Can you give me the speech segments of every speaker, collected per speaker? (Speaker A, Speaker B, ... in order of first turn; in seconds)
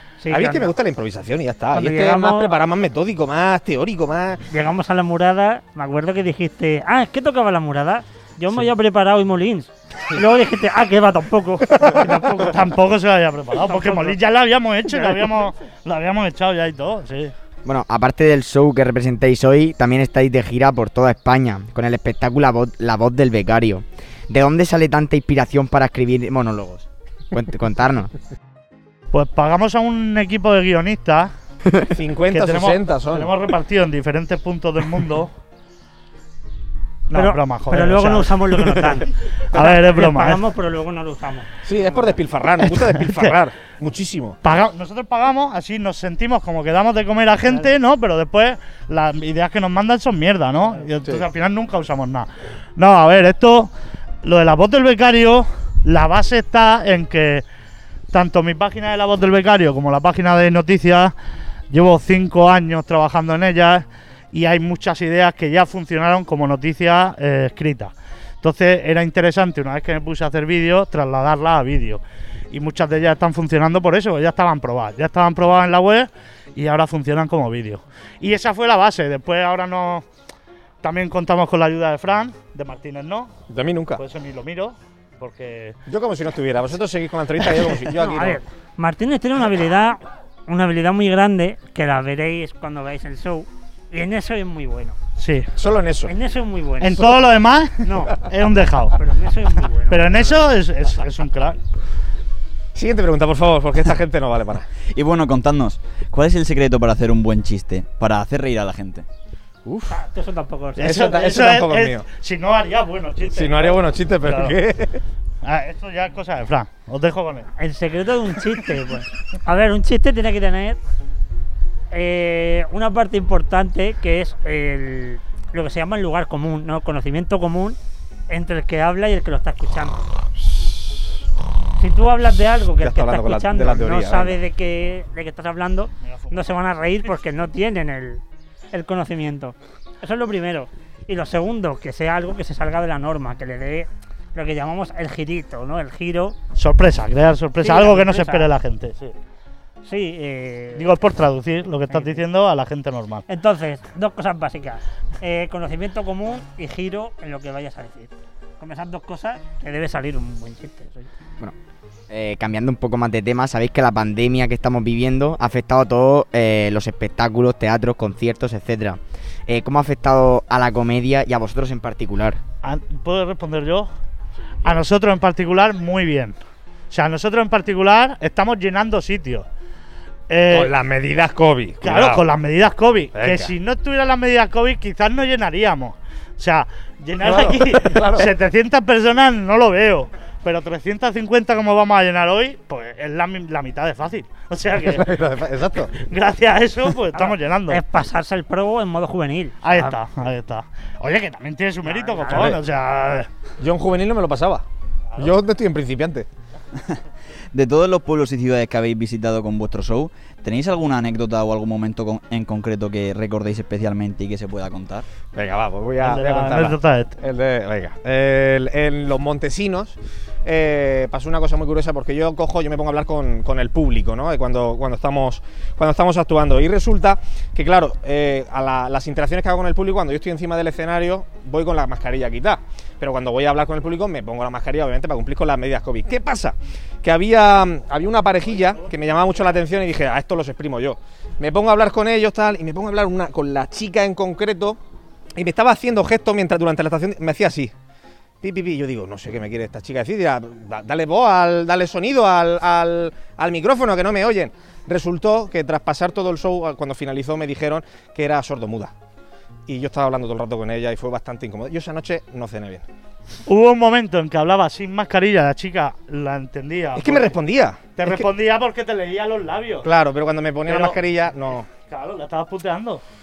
Speaker A: 0.2-0.7, 1.7-2.5, 4.5-12.7, 13.5-14.2, 14.9-15.3, 37.1-41.5, 88.0-95.0, 96.1-97.1, 97.8-98.3, 98.9-100.5, 109.9-111.0, 117.6-120.8, 121.9-127.8, 128.3-130.0, 131.8-146.4, 147.6-148.5, 149.8-150.9, 151.9-152.2, 153.3-161.1, 197.1-199.9, 201.9-202.6
Speaker B: 0.3-4.4, 31.9-33.3, 41.6-44.4, 83.5-84.0, 85.9-88.4, 95.6-96.1, 102.8-104.7, 109.7-109.9, 110.8-112.0, 113.3-115.0, 132.8-134.4, 180.5-182.2, 183.1-183.5, 187.2-188.3, 194.8-195.9, 202.3-202.6, 203.6-204.6, 205.2-206.3, 215.3-244.8, 245.4-247.7, 248.4-258.9, 259.7-262.9, 267.0-268.2, 269.8-271.7
Speaker C: 12.3-17.3, 29.1-31.3, 32.3-35.3, 37.1-40.4, 42.6-43.4, 44.4-53.7, 54.2-57.5, 58.1-61.1, 61.7-80.0, 80.8-83.3, 84.0-85.8, 95.2-95.5, 96.8-99.0, 99.9-101.6, 110.8-114.6, 115.4-117.5, 136.0-136.5, 146.6-149.1, 150.8-153.2, 172.6-173.9, 174.6-176.4, 176.9-179.5, 180.3-180.7, 181.8-195.1, 196.0-197.8, 199.6-203.3, 216.0-217.2, 263.5-267.4, 268.0-269.9, 270.7-271.0, 271.9-273.0
Speaker D: 17.6-28.1, 162.1-172.4
Speaker E: 104.9-109.0, 207.5-215.1